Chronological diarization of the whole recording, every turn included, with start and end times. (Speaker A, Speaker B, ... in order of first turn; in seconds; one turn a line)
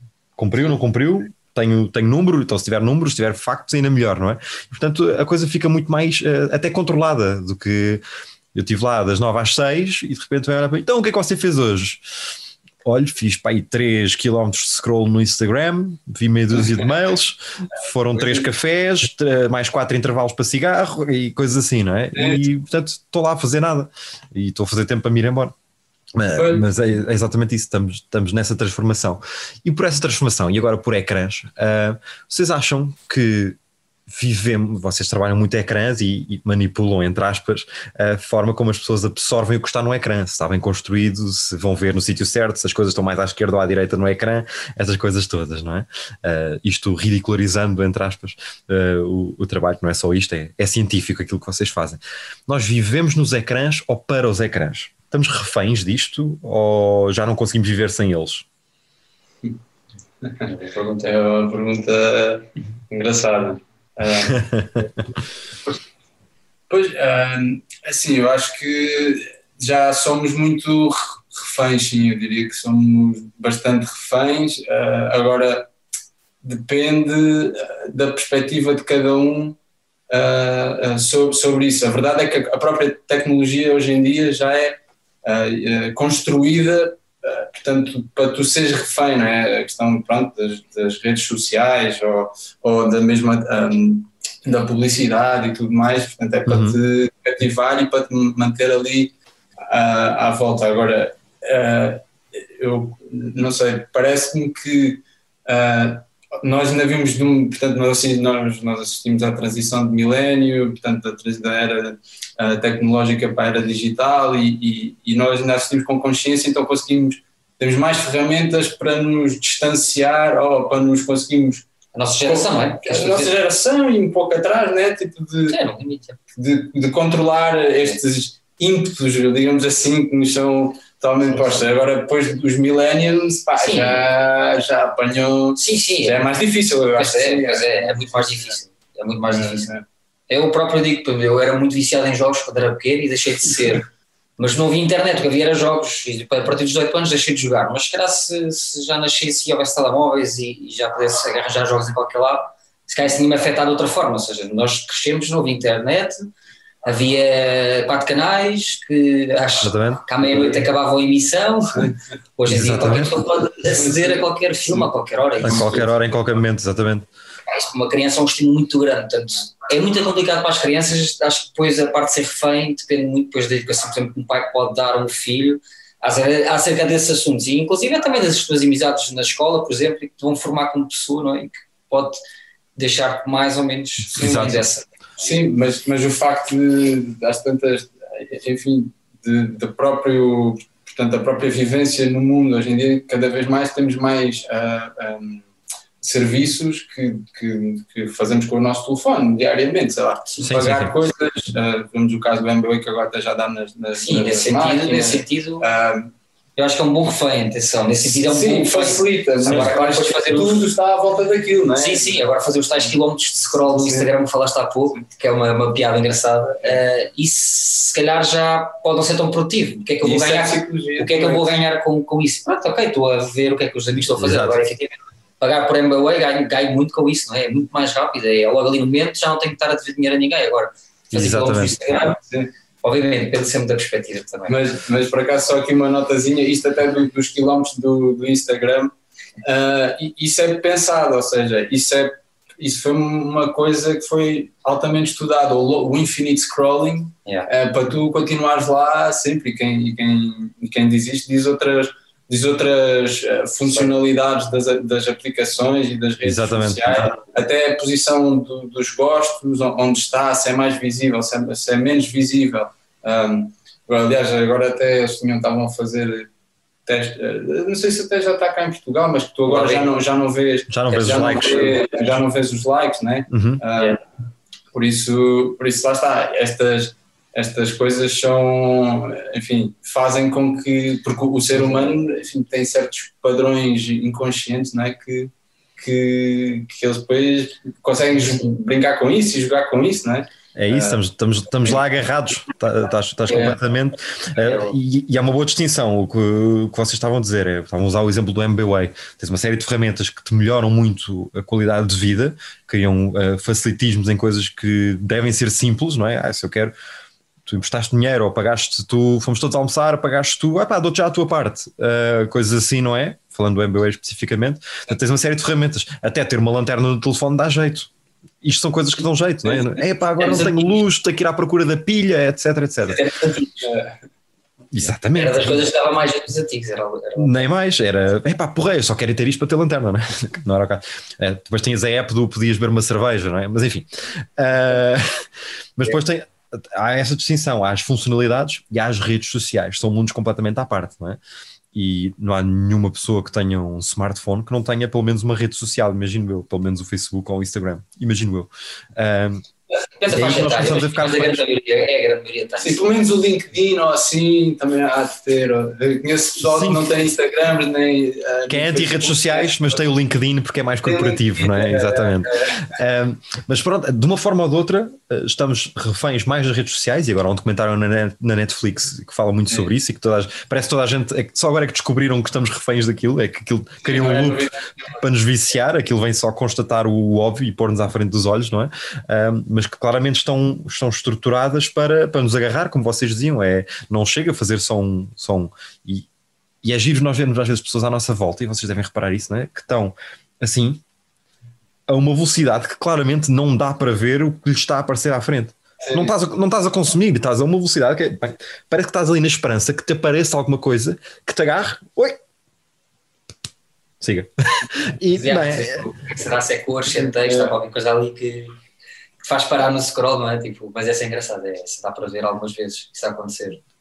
Speaker A: 0.4-8.0
Speaker A: 8.5-12.0
Speaker A: 12.8-25.5
Speaker B: 18.1-18.5
Speaker B: 22.1-22.4
Speaker A: 26.1-33.6
Speaker B: 26.3-26.7
Speaker A: 34.1-58.5
Speaker B: 60.2-64.8
Speaker C: 60.5-60.8
Speaker A: 64.3-64.9
Speaker B: 66.7-75.7
Speaker B: 76.4-79.6
Speaker B: 80.1-99.1
Speaker A: 96.5-96.8
Speaker B: 99.7-121.7
Speaker C: 121.9-123.3
Speaker B: 122.2-125.6
Speaker C: 125.5-126.2
Speaker B: 126.4-138.6
Speaker C: 133.6-134.0
Speaker C: 135.6-136.2
Speaker C: 137.0-139.7
Speaker B: 139.3-139.8
Speaker C: 140.3-143.8
Speaker C: 144.4-156.2
Speaker C: 156.8-165.9
Speaker A: 159.6-160.1
Speaker A: 162.5-163.1
Speaker B: 163.8-164.2
Speaker A: 165.4-167.1
Speaker C: 167.5-182.2
Speaker C: 182.8-184.8
Speaker B: 184.2-195.4
Speaker A: 184.2-184.6
Speaker B: 196.0-206.1
Speaker A: 200.4-200.9
Speaker C: 203.9-205.7
Speaker C: 206.6-210.7
Speaker B: 208.1-212.2
Speaker C: 211.8-232.2
Speaker B: 213.7-214.1
Speaker B: 220.0-221.6
Speaker A: 224.2-224.6
Speaker A: 231.1-231.8
Speaker B: 232.0-232.5
Speaker C: 232.8-234.6
Speaker B: 234.5-266.3
Speaker A: 256.2-257.2
Speaker B: 266.9-274.0
Speaker C: 269.4-269.9
Speaker A: 270.7-272.2
Speaker A: 273.3-273.6
Speaker B: 274.7-291.0
Speaker A: 290.6-306.8
Speaker C: 293.3-293.6
Speaker C: 294.4-294.7
Speaker A: 307.5-317.9
Speaker A: 318.4-323.0
Speaker C: 320.2-320.8
Speaker C: 322.9-323.5
Speaker B: 323.6-323.9
Speaker A: 324.7-325.7
Speaker C: 325.1-327.5
Speaker A: 327.2-335.3
Speaker A: 335.8-341.2
Speaker A: 341.7-349.4
Speaker C: 350.0-352.8
Speaker A: 350.1-351.4
Speaker B: 352.6-359.8
Speaker A: 356.4-356.9
Speaker A: 358.5-386.1
Speaker B: 360.8-362.6
Speaker B: 373.8-374.9
Speaker A: 386.6-390.8
Speaker A: 391.9-402.2
Speaker B: 395.8-396.1
Speaker A: 404.0-405.8
Speaker C: 405.2-408.6
Speaker B: 407.2-407.5
Speaker C: 409.2-413.6